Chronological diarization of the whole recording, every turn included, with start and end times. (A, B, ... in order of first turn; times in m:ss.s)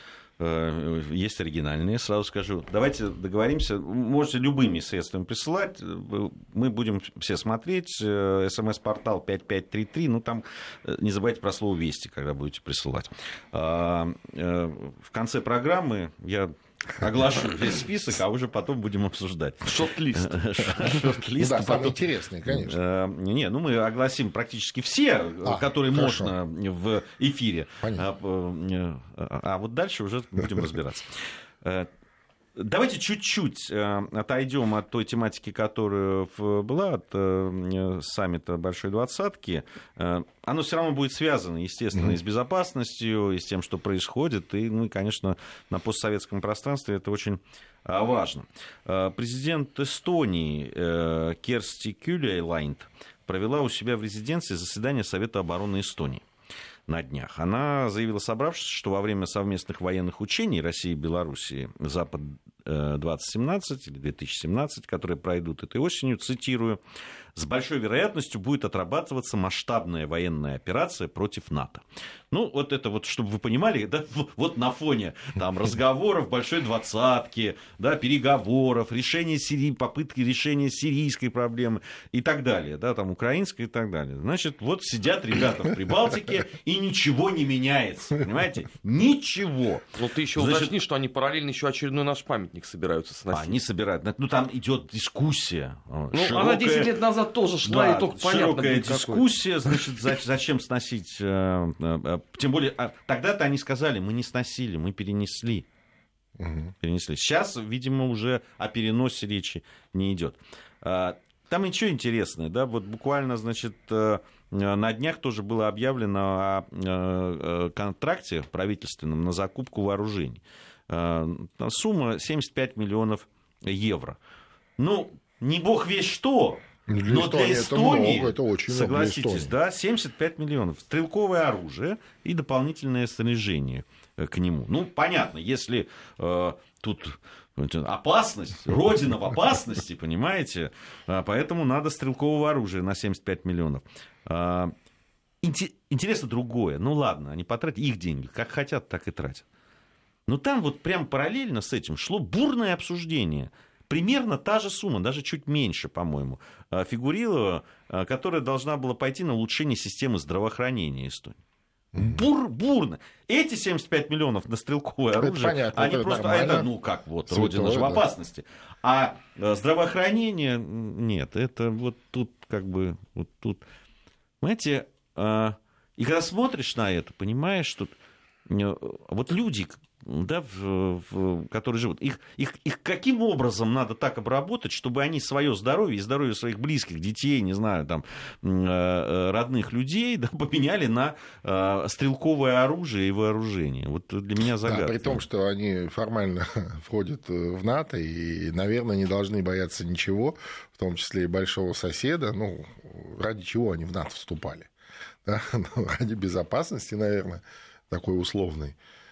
0:00.4-0:31.9 A
0:19.6-0:20.4 B
0:20.8-0:22.8 C
0:25.4-0:26.3 C
0:32.6-0:56.2 A
0:56.9-1:06.8 A
1:07.3-1:29.8 A
1:29.9-1:33.6 B
1:30.4-1:30.7 A
1:33.3-1:36.9 A
1:36.1-1:39.2 B
1:37.6-1:45.6 A
1:46.4-1:46.7 C
1:46.8-2:04.2 A
2:04.8-2:24.7 A
2:06.9-2:09.5 C
2:25.4-2:29.4 A
2:30.3-2:41.4 A
2:41.9-2:42.2 C
2:41.9-2:53.6 A
2:45.2-2:46.7 C
2:47.3-2:48.0 C
2:54.4-2:57.9 A
2:58.5-3:15.2 A
3:14.6-3:24.7 C
3:25.2-3:28.8 C